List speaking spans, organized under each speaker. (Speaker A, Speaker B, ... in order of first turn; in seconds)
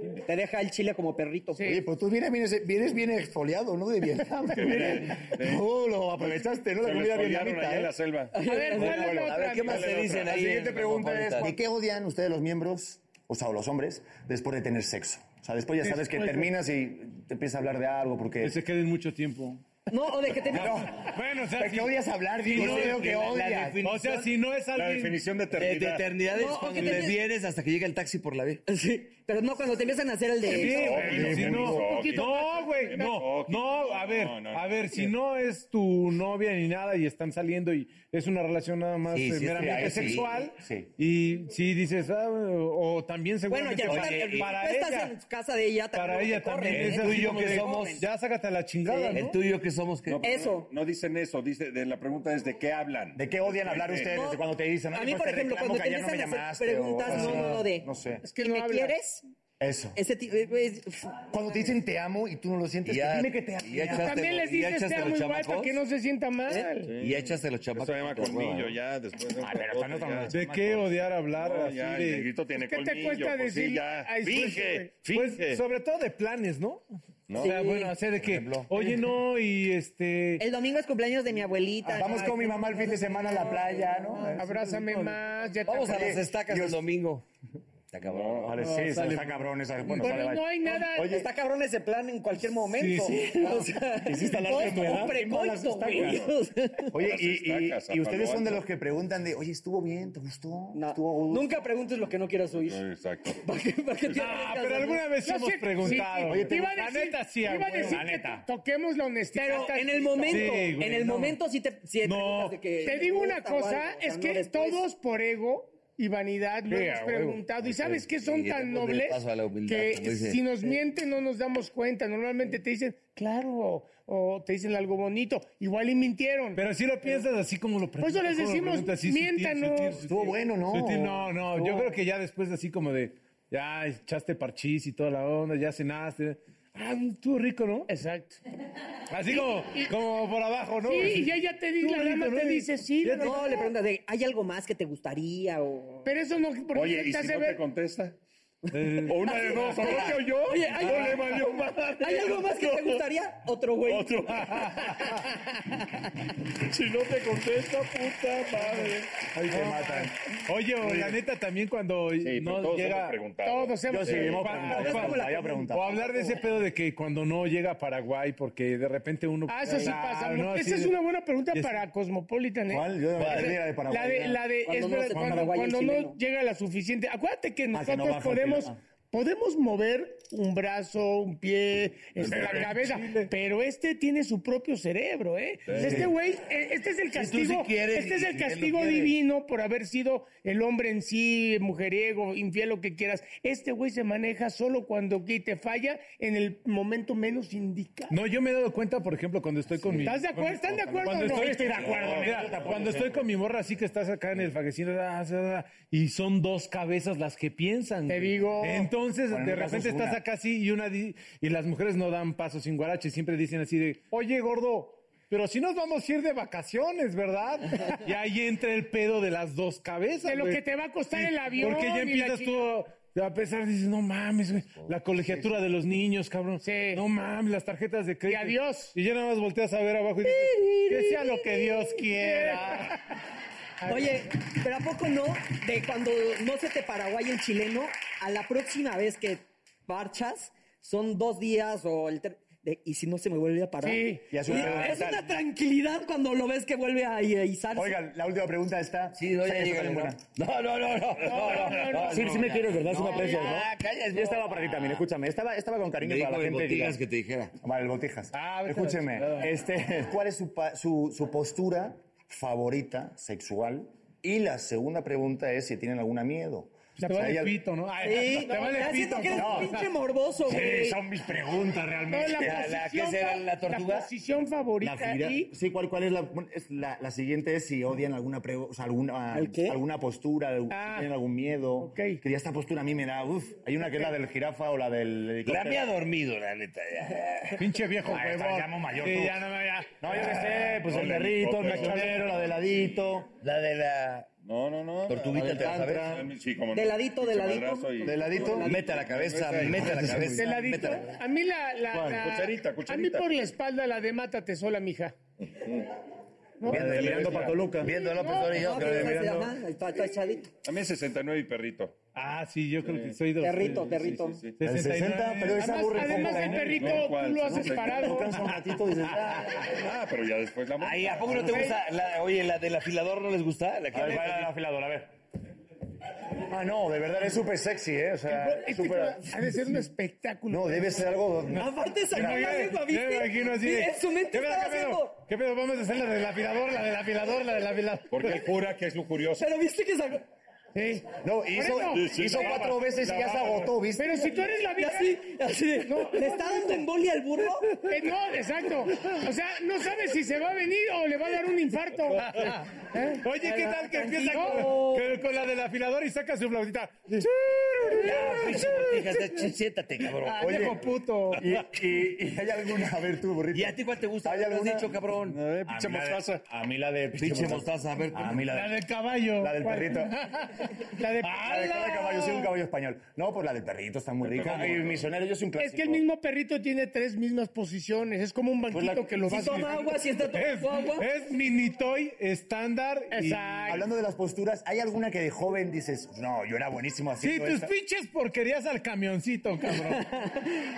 Speaker A: 0.2-1.6, 8.3-9.2, 19.9-20.8, 26.2-27.2, 28.7-31.1, 43.5-48.1, 50.2-50.7, 54.0-59.2, 60.0-61.2, 77.4-78.0, 80.4-82.8, 91.0-97.0, 100.7-102.8, 103.4-105.1, 109.3-114.8, 143.2-146.1, 149.8-151.2, 152.0-154.2, 164.9-166.1, 174.7-176.2, 230.2-231.9, 233.8-248.0, 268.0-271.0, 279.3-279.8, 296.7-298.9, 308.4-310.5, 313.4-314.5, 331.6-335.2, 339.4-340.2, 344.8-347.7, 353.4-355.1, 378.8-381.1, 389.8-390.5
Speaker B: 1.6-1.8, 8.5-9.9, 31.1-33.0, 58.2-59.0, 63.9-66.9, 72.6-74.9, 84.2-86.2, 90.0-91.2, 105.2-110.6, 112.8-126.6, 128.0-130.1, 137.9-138.4, 139.3-139.9, 140.8-143.7, 146.1-147.6, 163.4-164.9, 169.5-198.2, 200.0-201.9, 208.1-208.9, 220.2-222.7, 226.6-227.0, 228.3-228.9, 232.2-232.9, 233.8-234.2, 243.8-244.3, 251.2-252.5, 267.0-267.4, 268.5-268.8, 272.1-275.5, 280.7-281.1, 281.8-282.2, 300.4-305.2, 306.6-306.9, 307.9-308.8, 315.6-318.4, 321.5-321.8, 328.3-331.0, 340.8-342.6, 344.0-345.2, 345.8-346.9, 347.8-353.2, 354.3-354.6, 369.6-369.9, 371.0-372.3, 375.6-379.9, 383.1-383.9
Speaker C: 1.6-7.9, 10.0-18.6, 20.5-23.9, 31.0-31.8, 39.6-40.9, 53.2-58.3, 59.6-60.0, 61.3-64.2, 69.4-70.4, 78.2-78.7, 81.9-84.4, 85.8-86.8, 88.5-91.3, 94.0-96.2, 96.9-101.6, 106.3-106.6, 107.5-108.5, 116.7-117.4, 130.0-132.0, 159.3-160.1, 163.9-166.3, 172.7-174.5, 177.7-178.8, 185.8-186.1, 201.1-203.3, 209.3-210.2, 244.3-245.2, 247.8-250.2, 251.9-257.0, 257.6-267.6, 269.3-269.8, 270.4-272.8, 274.8-285.9, 288.1-289.5, 290.0-293.3, 298.1-298.7, 299.8-300.5, 301.9-302.2, 306.6-308.0, 308.7-309.4, 314.6-317.0, 317.8-319.6, 321.3-321.7, 323.9-325.1, 326.4-329.3, 330.5-332.6, 341.2-344.3, 360.4-365.1, 365.7-370.2, 371.2-376.0, 383.7-387.7
Speaker D: 4.5-5.7, 6.2-10.6, 24.7-26.2, 30.4-35.1, 50.1-54.2, 66.9-75.6, 77.3-77.6, 88.0-88.5, 96.0-96.3, 97.0-98.6, 102.6-103.4, 146.7-148.2, 149.1-153.0, 153.9-155.1, 156.7-159.1, 160.8-161.2, 162.2-165.2, 185.7-186.1, 201.9-202.4, 290.8-292.5, 294.4-300.2, 302.0-303.3, 305.4-305.9, 306.7-307.6, 310.6-312.0, 312.8-314.6, 316.6-318.2, 319.5-321.6, 338.1-339.5, 341.9-343.7, 365.3-366.4, 374.2-375.1
Speaker E: 8.6-11.6, 22.5-24.3, 25.5-28.6, 39.1-40.5, 43.8-44.6, 46.7-48.0, 49.1-50.3, 62.9-65.8, 67.0-68.8, 85.7-87.2, 87.9-88.8, 117.6-120.5, 173.2-173.6, 187.1-189.2, 249.1-255.1, 256.0-257.6, 272.3-274.1, 285.4-287.7, 293.4-294.3, 295.1-296.3, 298.6-301.1, 306.7-309.5, 320.8-324.5, 357.9-360.4, 363.5-365.4, 367.1-368.4
Speaker F: 15.8-16.5, 18.4-19.6, 20.6-23.2, 23.8-25.2, 30.5-45.2, 45.9-49.4, 70.3-72.3, 75.0-76.8, 77.4-80.5, 84.3-85.2, 88.6-90.2, 92.7-93.4, 104.1-108.0, 110.3-111.4, 112.0-112.6, 126.5-137.9, 139.1-143.5, 148.7-150.1, 150.8-151.4, 154.4-154.9, 159.5-163.2, 164.4-171.0, 171.5-171.8, 182.3-183.3, 198.1-233.0, 258.3-259.5, 267.0-269.9, 287.6-290.6, 291.7-292.2, 306.8-307.6, 312.1-316.9, 331.6-338.4, 352.2-352.7, 353.2-357.3, 357.9-359.5, 360.1-361.5, 368.4-369.8, 371.2-371.5, 380.2-383.6, 387.2-390.0